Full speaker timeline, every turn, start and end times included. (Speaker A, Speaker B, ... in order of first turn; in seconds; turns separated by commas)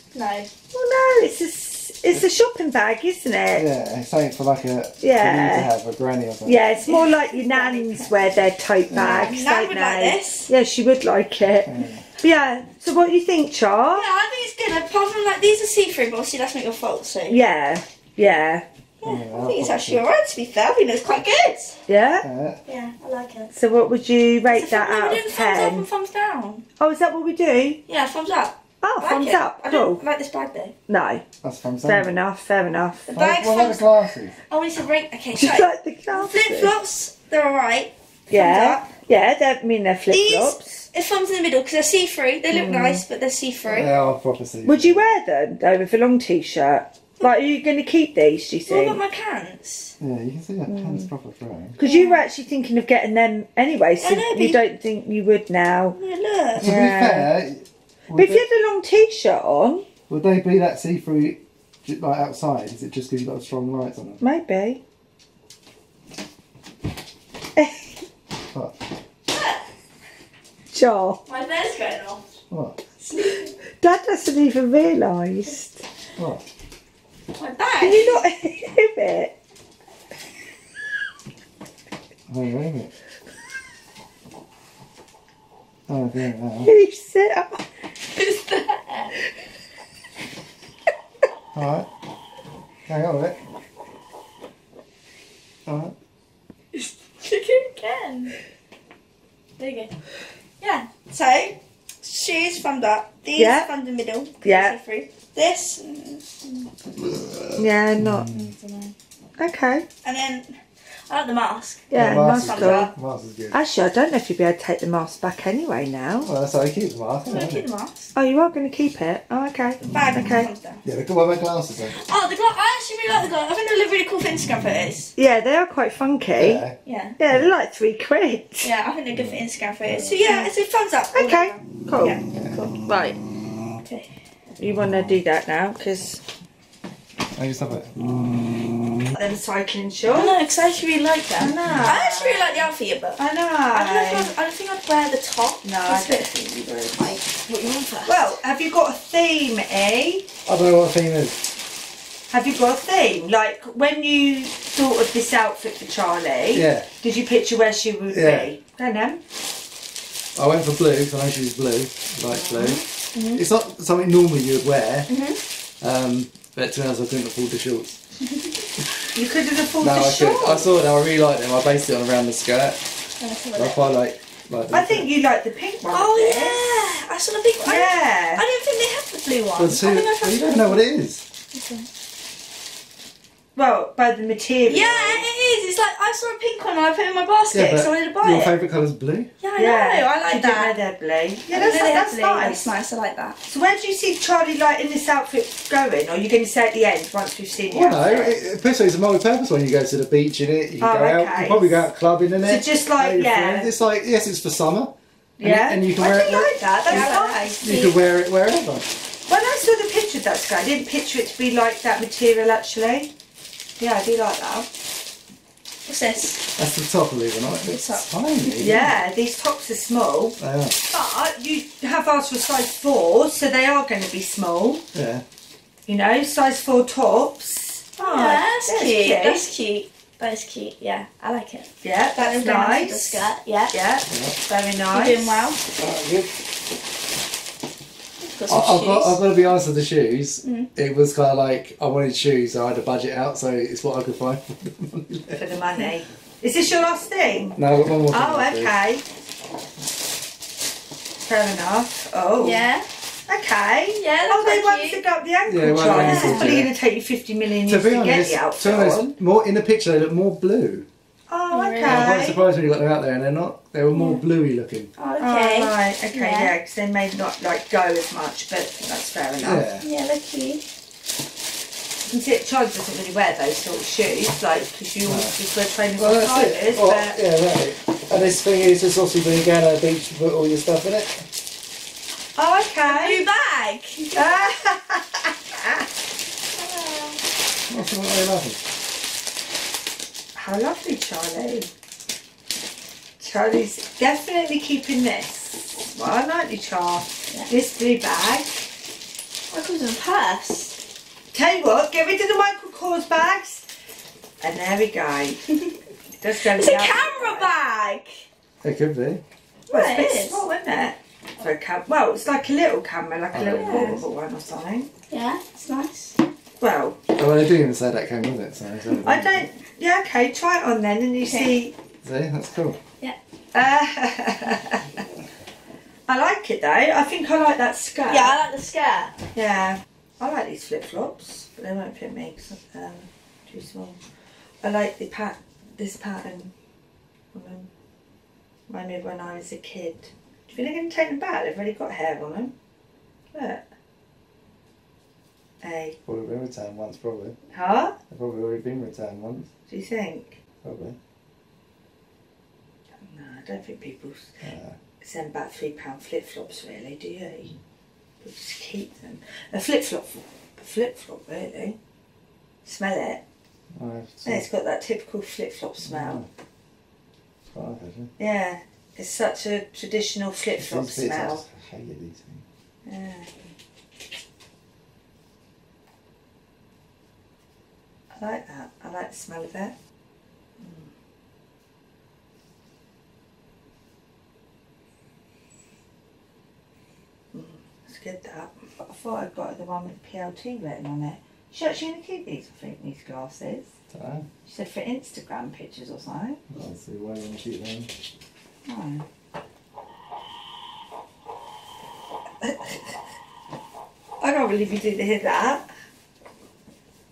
Speaker A: 0.1-0.5, Speaker B: 0.7-3.7, Speaker C: 3.5-6.7, Speaker B: 5.0-5.7, Speaker B: 6.5-14.1, Speaker A: 6.8-8.2, Speaker C: 8.9-9.2, Speaker A: 8.9-10.5, Speaker C: 11.7-12.1, Speaker A: 13.9-17.4, Speaker B: 17.3-18.6, Speaker A: 19.0-21.8, Speaker C: 19.0-20.1, Speaker B: 21.9-22.2, Speaker C: 22.2-22.6, Speaker A: 22.7-23.5, Speaker B: 23.5-25.9, Speaker A: 24.5-26.6, Speaker B: 26.8-27.8, Speaker A: 27.9-30.7, Speaker B: 28.8-30.0, Speaker B: 30.9-31.2, Speaker C: 31.4-32.1, Speaker B: 31.8-33.1, Speaker A: 33.1-34.0, Speaker C: 33.1-34.4, Speaker A: 34.5-39.0, Speaker B: 35.4-36.8, Speaker B: 38.3-40.9, Speaker A: 40.1-43.9, Speaker B: 42.5-43.0, Speaker C: 43.7-45.1, Speaker B: 44.6-49.0, Speaker A: 48.7-49.9, Speaker C: 50.0-51.8, Speaker B: 50.7-51.1, Speaker B: 51.8-56.0, Speaker A: 51.8-52.3, Speaker A: 54.0-54.6, Speaker A: 56.0-56.7, Speaker B: 56.6-57.3, Speaker C: 56.6-58.4, Speaker B: 58.1-59.9, Speaker C: 60.1-64.2, Speaker B: 64.2-64.8, Speaker B: 67.6-67.9, Speaker A: 69.3-69.6, Speaker B: 70.7-71.2, Speaker A: 71.3-72.3, Speaker C: 72.5-72.8, Speaker A: 73.0-73.5, Speaker B: 73.8-75.8, Speaker C: 76.2-76.5, Speaker A: 77.4-78.2, Speaker B: 77.8-79.3, Speaker C: 82.3-82.9, Speaker C: 85.9-86.7, Speaker B: 86.6-87.6, Speaker A: 88.2-89.1, Speaker C: 91.5-91.9, Speaker C: 92.9-93.4, Speaker C: 95.7-95.9, Speaker A: 96.7-98.4, Speaker A: 99.6-99.9, Speaker A: 100.6-106.7, Speaker B: 103.4-103.7, Speaker B: 104.4-104.8, Speaker C: 107.0-108.5, Speaker B: 107.6-108.3, Speaker A: 108.2-108.9, Speaker B: 109.4-109.8, Speaker A: 110.0-110.5, Speaker A: 111.1-112.9, Speaker B: 111.9-112.9, Speaker C: 112.0-113.6, Speaker B: 113.5-116.3, Speaker C: 116.2-117.7, Speaker A: 117.3-118.1, Speaker B: 118.2-120.5, Speaker A: 119.8-120.8, Speaker C: 120.8-122.0, Speaker A: 121.9-125.1, Speaker B: 125.2-126.6, Speaker C: 126.4-126.8, Speaker A: 126.8-127.2, Speaker B: 127.2-128.7, Speaker A: 128.6-133.1, Speaker C: 129.1-130.2, Speaker B: 130.2-130.5, Speaker B: 131.1-132.2, Speaker C: 132.3-132.6, Speaker B: 132.9-133.2, Speaker B: 134.6-136.2, Speaker C: 134.7-135.2, Speaker C: 137.3-139.2, Speaker B: 139.2-140.4, Speaker A: 140.1-143.2, Speaker B: 141.4-144.3, Speaker C: 141.6-141.9, Speaker A: 143.7-146.3, Speaker B: 145.6-147.2, Speaker A: 146.9-148.4, Speaker B: 148.1-150.3, Speaker C: 150.5-151.4, Speaker B: 152.3-159.2, Speaker C: 156.5-156.9, Speaker C: 158.1-158.5, Speaker C: 160.4-165.1, Speaker B: 162.3-162.8, Speaker A: 163.1-163.4, Speaker A: 165.1-165.4, Speaker C: 165.8-168.0, Speaker B: 169.1-170.7, Speaker C: 169.8-172.8, Speaker A: 173.2-173.9, Speaker C: 173.5-175.1, Speaker B: 174.7-176.6, Speaker A: 175.9-180.8, Speaker B: 177.6-178.4, Speaker C: 179.6-181.2, Speaker A: 181.5-181.9, Speaker B: 183.6-185.3, Speaker A: 184.7-188.5, Speaker C: 187.5-189.3, Speaker A: 189.4-190.8, Speaker B: 189.6-192.7, Speaker A: 191.5-193.4, Speaker B: 193.5-198.4, Speaker C: 197.7-208.9, Speaker B: 200.8-201.9, Speaker B: 202.4-203.7, Speaker B: 205.4-207.6, Speaker A: 206.9-208.0, Speaker B: 209.3-213.1, Speaker B: 213.8-214.7, Speaker A: 215.9-216.4, Speaker C: 216.6-219.0, Speaker A: 217.7-218.1, Speaker B: 218.6-224.8, Speaker C: 220.4-220.8, Speaker C: 224.9-225.2, Speaker B: 225.9-229.5, Speaker A: 228.0-233.8, Speaker B: 231.8-235.5, Speaker C: 234.1-234.4, Speaker A: 234.9-235.6, Speaker C: 235.8-236.4, Speaker A: 238.2-239.2, Speaker C: 238.5-245.4, Speaker A: 240.4-240.7, Speaker B: 245.3-249.0, Speaker C: 247.6-248.8, Speaker B: 251.3-252.7, Speaker A: 252.4-252.8, Speaker B: 253.3-259.1, Speaker A: 253.9-255.0, Speaker C: 255.5-256.7, Speaker A: 255.7-256.6, Speaker C: 257.7-260.9, Speaker B: 261.3-262.5, Speaker A: 261.5-262.2, Speaker C: 261.8-264.9, Speaker A: 263.9-264.2, Speaker A: 265.0-266.5, Speaker B: 265.2-269.7, Speaker C: 269.4-269.9, Speaker A: 269.8-270.6, Speaker B: 272.1-277.2, Speaker C: 275.0-275.3, Speaker C: 275.9-281.2, Speaker B: 282.4-283.3, Speaker A: 282.8-284.4, Speaker B: 284.1-285.8, Speaker A: 286.6-287.2, Speaker C: 287.7-288.6, Speaker B: 290.4-291.7, Speaker B: 293.2-298.7, Speaker A: 299.5-300.7, Speaker B: 301.3-303.6, Speaker B: 304.4-305.4, Speaker B: 306.2-307.5, Speaker A: 306.4-308.1, Speaker C: 308.6-309.2, Speaker A: 309.7-310.4, Speaker B: 309.7-314.9, Speaker C: 313.3-314.1, Speaker A: 313.4-314.0, Speaker A: 315.1-316.2, Speaker B: 316.6-317.0, Speaker C: 317.2-319.5, Speaker B: 319.0-321.7, Speaker A: 321.2-321.5, Speaker C: 322.0-322.8, Speaker B: 323.5-324.9, Speaker B: 326.1-328.4, Speaker A: 328.1-329.1, Speaker B: 329.3-334.0, Speaker B: 334.6-336.5, Speaker B: 337.3-337.7, Speaker B: 338.7-342.5, Speaker B: 343.3-343.6, Speaker B: 345.6-346.0, Speaker C: 346.1-347.4, Speaker B: 347.5-348.0, Speaker C: 348.1-349.5, Speaker B: 349.7-350.4, Speaker C: 350.6-351.0, Speaker B: 353.0-354.3, Speaker C: 354.4-354.8, Speaker B: 355.0-357.6, Speaker B: 358.2-361.8, Speaker B: 362.6-363.2, Speaker C: 363.8-364.4, Speaker B: 364.2-366.2, Speaker C: 365.9-366.3, Speaker C: 367.5-368.1, Speaker B: 368.2-371.4, Speaker C: 370.6-372.4, Speaker B: 372.9-373.4, Speaker B: 378.1-379.7, Speaker B: 380.6-380.9, Speaker B: 387.3-393.7, Speaker C: 393.9-394.3, Speaker B: 394.4-396.4, Speaker C: 396.5-397.9, Speaker B: 398.7-399.1, Speaker B: 402.4-402.9, Speaker B: 404.2-405.7